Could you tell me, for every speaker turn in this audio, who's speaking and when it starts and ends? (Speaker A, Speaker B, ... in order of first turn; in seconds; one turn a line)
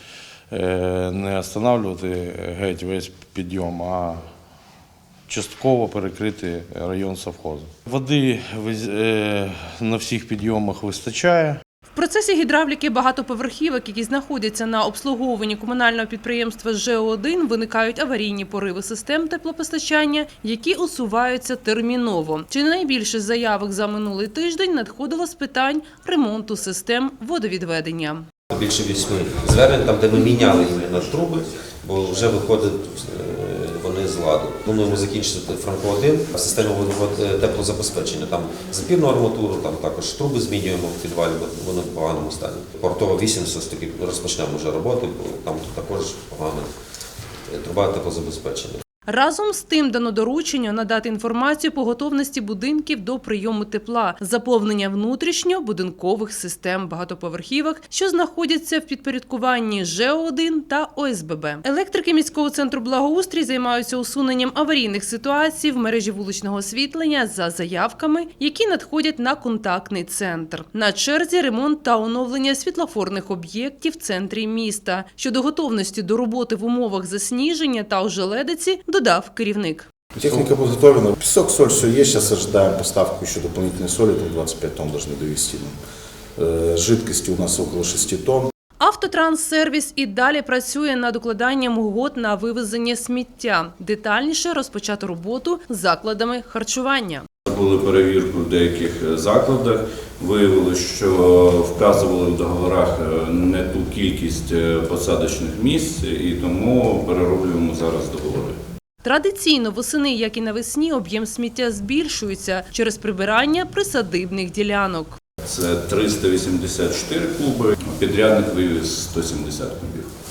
Speaker A: 0.5-4.2
Speaker A: 5.3-11.6
Speaker B: 11.9-28.2
Speaker C: 28.5-46.7
Speaker C: 47.5-48.8
Speaker B: 49.1-79.9
Speaker D: 80.1-85.7
Speaker D: 86.4-88.5
Speaker B: 88.8-97.3
Speaker E: 97.5-108.6
Speaker B: 109.0-115.2
Speaker E: 115.4-120.1